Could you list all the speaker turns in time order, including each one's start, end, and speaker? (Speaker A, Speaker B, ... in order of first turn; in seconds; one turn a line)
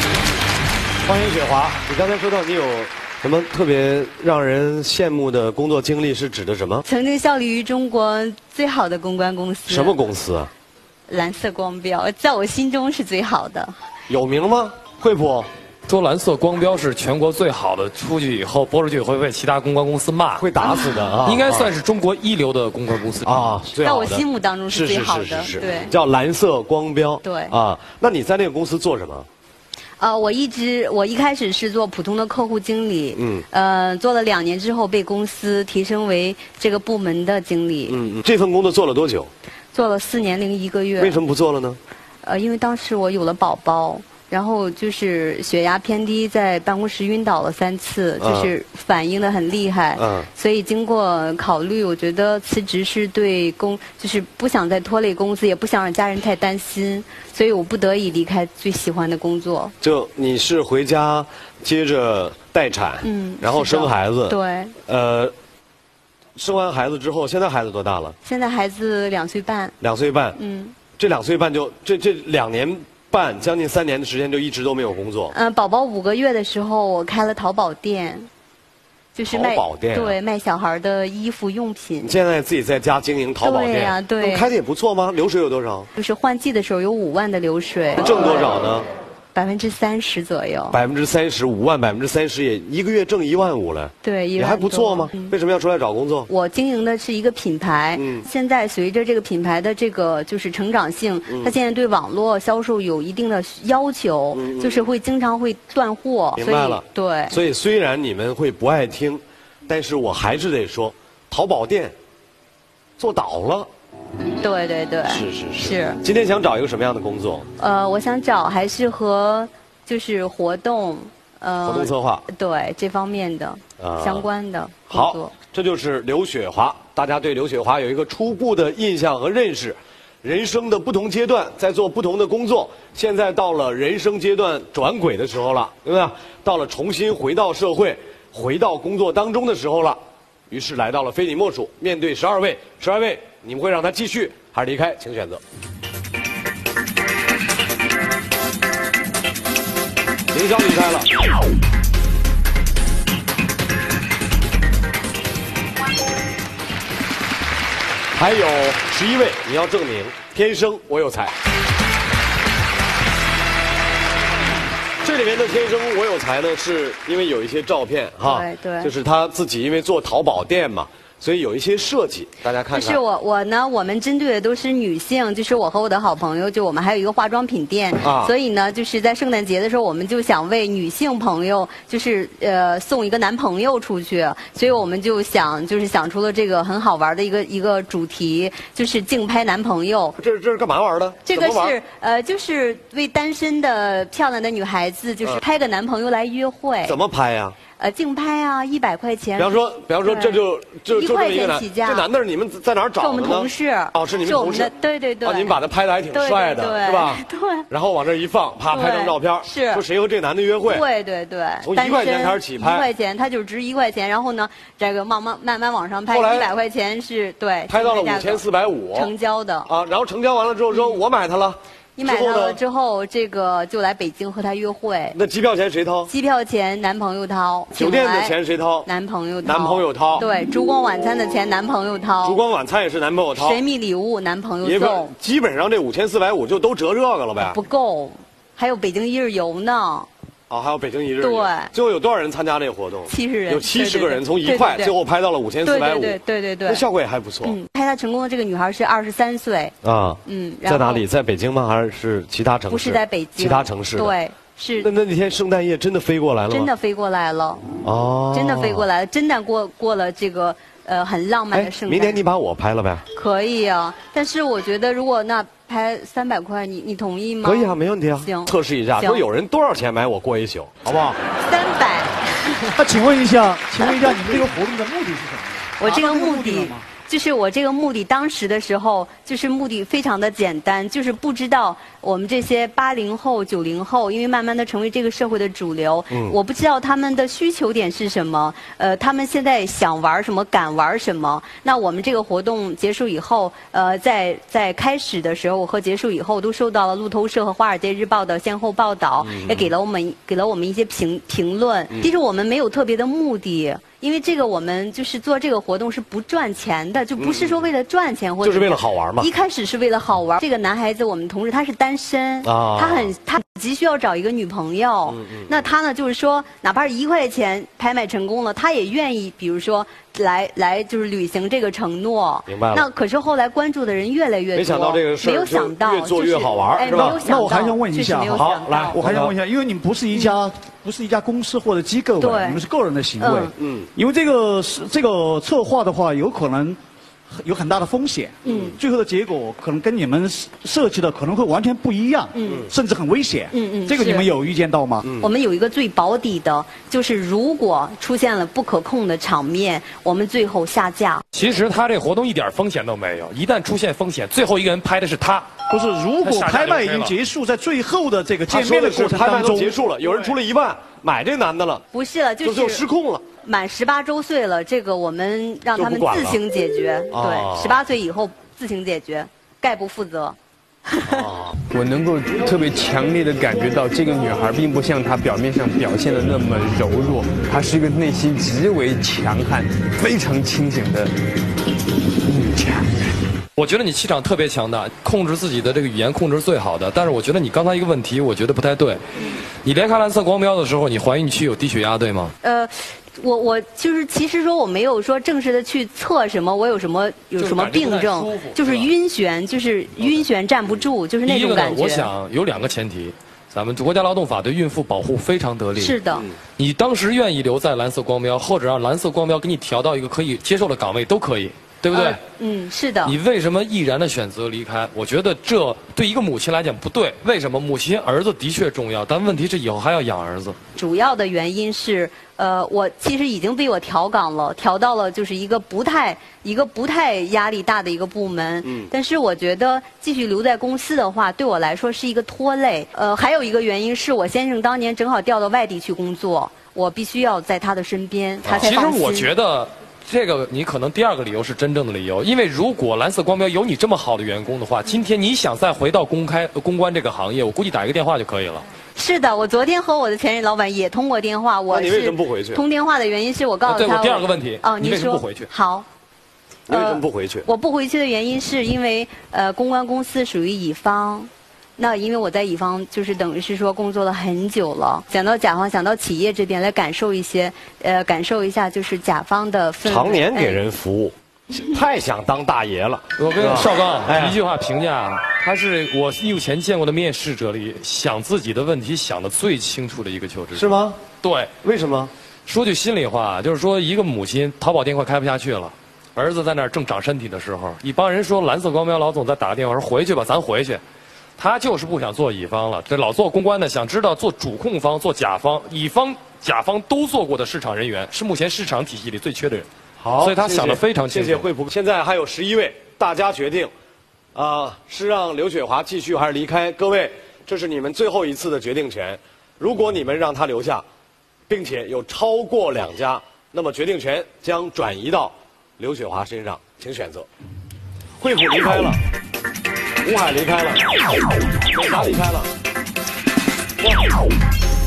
Speaker A: 1.0-6.8
Speaker B: 6.8-10.0
Speaker A: 9.7-10.5
Speaker B: 11.1-13.7
Speaker A: 14.1-15.5
Speaker C: 15.9-20.6
Speaker A: 20.4-21.7
Speaker C: 21.2-23.4
Speaker A: 23.2-29.3
Speaker B: 23.8-25.9
Speaker B: 27.2-27.5
Speaker B: 30.0-38.0
Speaker A: 33.1-33.4
Speaker A: 37.9-39.3
Speaker B: 39.7-41.2
Speaker A: 41.0-41.8
Speaker B: 42.2-59.7
Speaker A: 48.2-48.5
Speaker A: 50.0-50.3
Speaker A: 59.8-65.3
Speaker B: 63.0-64.7
Speaker A: 66.3-68.2
Speaker B: 68.2-69.7
Speaker A: 69.8-70.4
Speaker B: 70.4-70.8
Speaker A: 71.0-75.3
Speaker B: 75.3-78.3
Speaker B: 79.1-82.1
Speaker A: 79.3-80.2
Speaker A: 82.0-85.9
Speaker B: 83.4-84.5
Speaker B: 86.0-88.4
Speaker A: 88.0-88.9
Speaker B: 89.3-90.8
Speaker A: 90.7-96.3
Speaker B: 94.0-95.3
Speaker B: 96.3-107.4
Speaker A: 98.0-98.2
Speaker A: 101.3-101.5
Speaker A: 104.3-104.9
Speaker A: 106.3-111.9
Speaker A: 113.0-113.7
Speaker B: 114.4-116.0
Speaker A: 115.1-117.5
Speaker B: 117.6-125.3
Speaker A: 121.6-122.2
Speaker A: 123.8-124.3
Speaker A: 124.9-140.0
Speaker A: 140.5-145.4
Speaker A: 150.3-151.1
Speaker A: 158.1-161.3
Speaker A: 165.0-173.0
Speaker B: 168.2-168.9
Speaker B: 172.7-190.2
Speaker A: 178.0-178.3
Speaker A: 190.2-191.8
Speaker B: 191.2-196.9
Speaker A: 196.8-197.6
Speaker B: 197.8-202.1
Speaker A: 199.3-204.7
Speaker B: 203.0-205.6
Speaker A: 205.2-210.8
Speaker B: 206.1-207.7
Speaker B: 208.7-209.8
Speaker B: 210.6-219.7
Speaker A: 211.6-212.9
Speaker A: 216.1-216.5
Speaker A: 217.7-219.1
Speaker A: 219.7-222.6
Speaker B: 222.0-225.2
Speaker A: 225.1-226.1
Speaker B: 226.1-232.4
Speaker A: 227.7-228.9
Speaker A: 229.4-230.3
Speaker A: 232.2-233.6
Speaker B: 233.3-235.1
Speaker A: 234.6-237.6
Speaker B: 237.4-240.1
Speaker A: 240.5-247.6
Speaker B: 241.2-241.7
Speaker B: 243.1-244.9
Speaker B: 245.6-246.8
Speaker B: 247.4-249.7
Speaker A: 249.8-254.2
Speaker B: 250.2-251.0
Speaker B: 252.7-254.9
Speaker A: 254.8-256.7
Speaker B: 256.5-257.6
Speaker A: 257.8-258.9
Speaker B: 258.3-262.2
Speaker A: 261.5-263.0
Speaker B: 263.1-269.2
Speaker A: 267.4-271.2
Speaker B: 271.4-272.7
Speaker D: 272.8-276.8
Speaker B: 275.8-329.2
Speaker A: 286.1-286.4
Speaker A: 299.2-299.7
Speaker A: 307.2-307.6
Speaker A: 308.4-309.3
Speaker A: 312.4-313.1
Speaker A: 315.1-315.6
Speaker A: 322.5-322.9
Speaker A: 324.5-327.2
Speaker D: 326.9-336.8
Speaker A: 328.3-329.3
Speaker B: 332.2-332.6
Speaker B: 333.2-333.5
Speaker A: 333.6-333.9
Speaker D: 337.4-345.1
Speaker B: 338.4-338.7
Speaker A: 338.4-338.8
Speaker B: 342.3-342.7
Speaker B: 343.5-344.3
Speaker B: 345.2-351.2
Speaker C: 351.3-355.5
Speaker D: 355.7-360.3
Speaker C: 356.2-357.1
Speaker A: 358.5-361.8
Speaker B: 361.9-362.8
Speaker A: 362.4-363.2
Speaker B: 363.4-370.4
Speaker A: 365.7-366.4
Speaker A: 367.1-367.8
Speaker A: 371.0-371.5
Speaker E: 371.7-381.1
Speaker E: 382.2-383.0
Speaker C: 383.6-389.0
Speaker C: 389.6-392.3
Speaker B: 392.4-402.1
Speaker C: 397.4-398.9
Speaker C: 400.0-400.2
Speaker C: 401.2-406.0
Speaker B: 405.8-406.2
Speaker C: 406.6-412.2
Speaker B: 411.9-413.1
Speaker C: 413.0-420.6
Speaker B: 420.8-439.3
Speaker C: 438.4-448.6
Speaker B: 448.9-455.9
Speaker A: 451.7-452.6
Speaker C: 453.6-455.5
Speaker A: 456.7-457.5
Speaker B: 456.7-470.6
Speaker A: 469.8-474.4
Speaker C: 473.2-481.5
Speaker A: 480.5-481.1
Speaker A: 481.6-482.1
Speaker C: 482.4-490.8
Speaker C: 491.4-499.7
Speaker A: 500.0-503.7
Speaker C: 500.2-501.4
Speaker A: 504.3-510.8
Speaker A: 511.5-517.3
Speaker A: 518.2-519.0
Speaker A: 520.0-521.0
Speaker A: 521.7-522.5